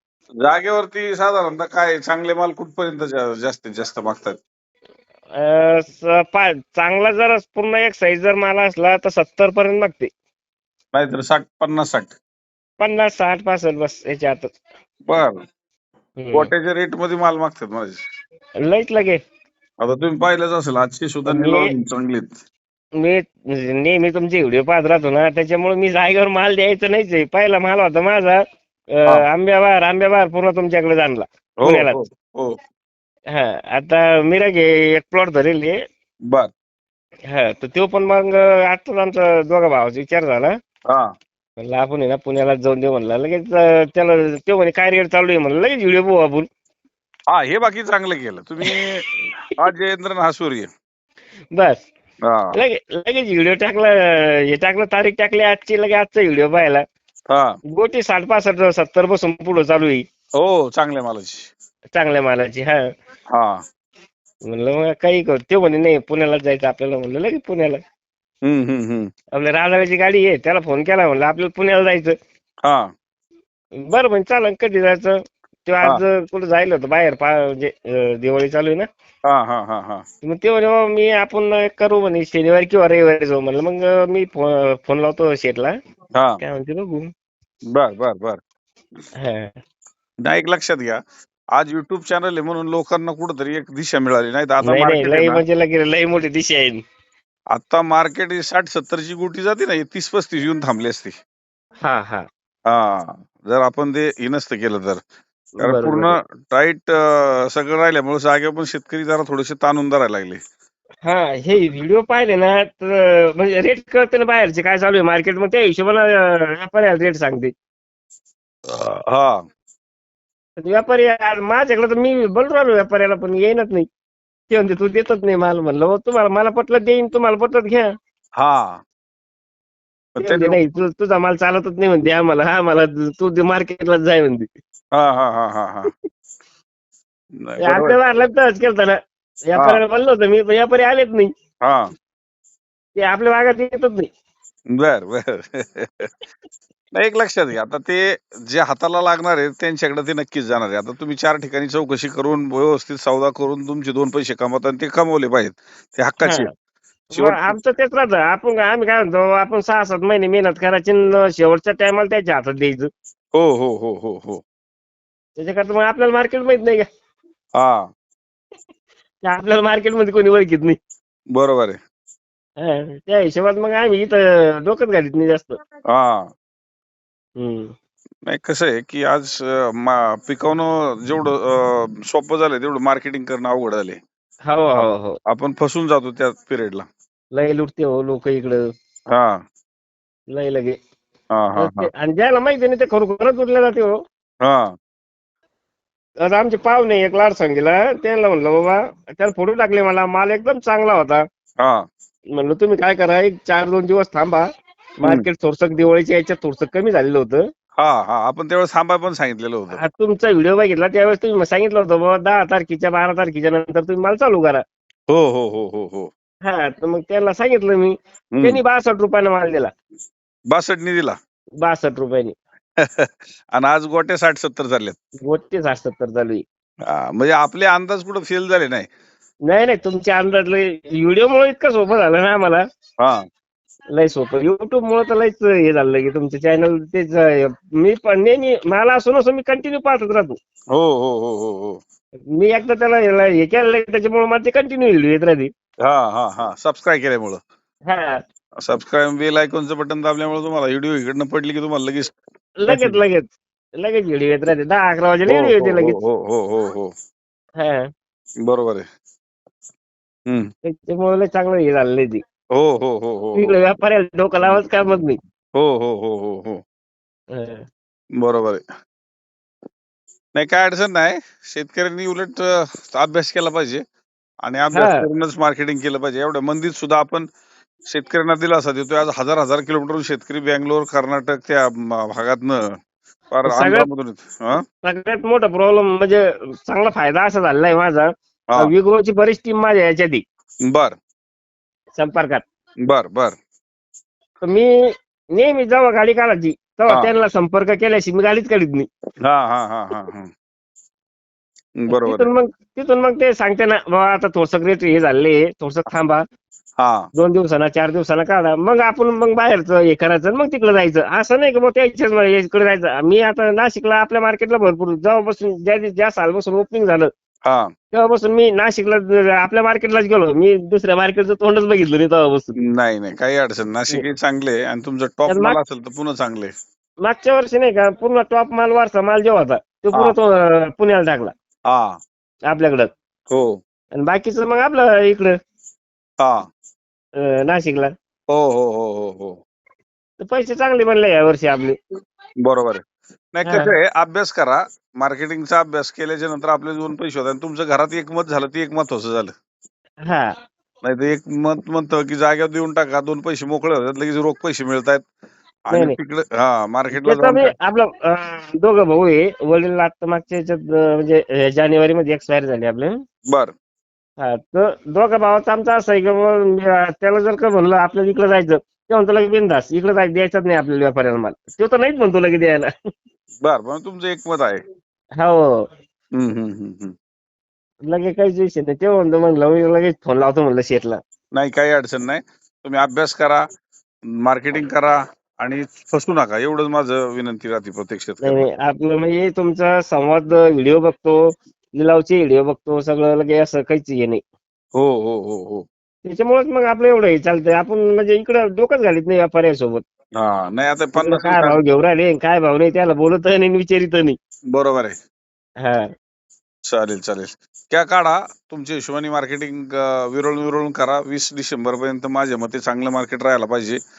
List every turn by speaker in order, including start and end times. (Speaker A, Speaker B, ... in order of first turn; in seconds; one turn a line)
Speaker A: 0.4-4.4
Speaker B: 5.4-10.1
Speaker A: 10.9-12.2
Speaker B: 12.8-14.6
Speaker A: 15.1-15.4
Speaker B: 16.2-16.5
Speaker A: 16.3-18.0
Speaker B: 18.7-19.2
Speaker A: 19.8-22.4
Speaker B: 21.3-21.7
Speaker B: 23.0-28.4
Speaker B: 28.9-32.0
Speaker A: 31.6-32.6
Speaker B: 33.3-35.8
Speaker B: 37.3-40.5
Speaker B: 41.6-46.5
Speaker A: 47.3-49.1
Speaker A: 49.6-50.7
Speaker B: 51.5-51.8
Speaker A: 52.2-52.6
Speaker B: 52.5-56.8
Speaker A: 57.3-57.6
Speaker B: 57.7-60.0
Speaker A: 60.4-61.5
Speaker B: 61.9-62.8
Speaker A: 63.3-63.6
Speaker B: 64.5-67.8
Speaker A: 68.4-69.1
Speaker B: 69.3-72.2
Speaker B: 73.9-78.9
Speaker A: 79.2-80.0
Speaker B: 80.2-85.7
Speaker A: 86.1-86.4
Speaker B: 86.4-87.0
Speaker A: 87.7-88.4
Speaker B: 89.2-89.6
Speaker A: 90.2-91.0
Speaker A: 91.5-95.4
Speaker B: 94.6-96.8
Speaker A: 97.5-101.1
Speaker B: 101.8-102.3
Speaker A: 102.7-105.0
Speaker B: 105.6-106.2
Speaker A: 105.6-110.4
Speaker B: 111.0-117.5
Speaker A: 118.7-119.4
Speaker B: 120.6-123.9
Speaker B: 124.5-127.9
Speaker A: 128.4-128.8
Speaker A: 130.2-130.6
Speaker B: 130.2-134.5
Speaker A: 134.9-135.9
Speaker A: 137.4-138.0
Speaker B: 137.6-139.0
Speaker B: 139.5-141.3
Speaker A: 139.6-139.8
Speaker B: 143.0-144.1
Speaker A: 144.7-146.1
Speaker A: 146.9-156.5
Speaker B: 156.2-156.5
Speaker B: 157.1-162.9
Speaker A: 157.2-157.6
Speaker A: 163.3-164.4
Speaker B: 165.4-166.9
Speaker A: 167.6-167.8
Speaker B: 169.2-170.8
Speaker A: 171.3-171.8
Speaker B: 172.6-175.6
Speaker A: 175.9-176.3
Speaker B: 177.4-177.7
Speaker A: 178.3-184.0
Speaker B: 184.5-185.2
Speaker A: 185.3-186.9
Speaker B: 187.3-188.7
Speaker A: 189.1-189.4
Speaker B: 190.3-190.8
Speaker A: 191.3-191.9
Speaker B: 191.6-194.0
Speaker A: 194.4-194.7
Speaker B: 196.2-201.2
Speaker A: 201.6-201.9
Speaker B: 202.3-204.5
Speaker B: 205.0-207.4
Speaker A: 207.8-209.8
Speaker B: 209.7-214.6
Speaker A: 215.1-216.1
Speaker B: 216.4-219.7
Speaker A: 218.3-218.6
Speaker A: 220.5-221.2
Speaker B: 221.6-222.3
Speaker A: 222.8-225.0
Speaker B: 225.2-226.4
Speaker A: 226.9-228.9
Speaker B: 229.5-232.6
Speaker B: 233.9-240.4
Speaker A: 240.7-241.8
Speaker B: 242.3-245.5
Speaker A: 245.8-247.4
Speaker B: 247.9-248.2
Speaker A: 248.6-252.2
Speaker B: 252.6-253.2
Speaker A: 252.7-253.0
Speaker B: 253.8-256.0
Speaker A: 255.3-256.9
Speaker B: 257.6-257.9
Speaker A: 258.5-258.9
Speaker B: 260.6-262.2
Speaker A: 262.5-263.6
Speaker B: 263.4-265.2
Speaker A: 265.6-266.6
Speaker B: 267.3-267.6
Speaker A: 268.2-268.6
Speaker A: 270.4-273.8
Speaker A: 274.4-277.3
Speaker B: 274.7-275.1
Speaker A: 277.9-282.6
Speaker A: 283.3-284.6
Speaker B: 283.5-283.9
Speaker B: 284.8-290.2
Speaker A: 290.7-291.0
Speaker B: 292.0-292.4
Speaker A: 292.9-293.4
Speaker B: 294.4-298.9
Speaker A: 299.2-300.3
Speaker A: 301.8-302.3
Speaker B: 301.9-306.2
Speaker A: 306.8-307.1
Speaker B: 307.2-317.1
Speaker B: 317.9-322.6
Speaker A: 322.6-326.5
Speaker B: 325.3-325.6
Speaker B: 327.1-331.3
Speaker A: 331.7-332.0
Speaker B: 332.5-332.9
Speaker A: 333.3-333.6
Speaker B: 334.0-335.4
Speaker B: 337.2-337.9
Speaker A: 338.3-339.4
Speaker B: 340.2-341.8
Speaker A: 342.4-349.3
Speaker B: 343.4-343.7
Speaker A: 350.8-355.1
Speaker A: 355.7-357.5
Speaker B: 355.7-356.0
Speaker B: 356.9-363.0
Speaker A: 363.3-363.5
Speaker B: 364.2-372.7
Speaker A: 373.4-374.6
Speaker B: 375.2-375.6
Speaker A: 376.1-376.9
Speaker B: 377.9-381.0
Speaker A: 381.3-383.4
Speaker A: 384.2-388.5
Speaker B: 388.2-394.2
Speaker A: 394.8-395.6
Speaker B: 396.1-399.8
Speaker A: 400.2-401.6
Speaker B: 401.0-404.2
Speaker A: 404.5-405.0
Speaker B: 405.6-405.9
Speaker A: 406.7-413.8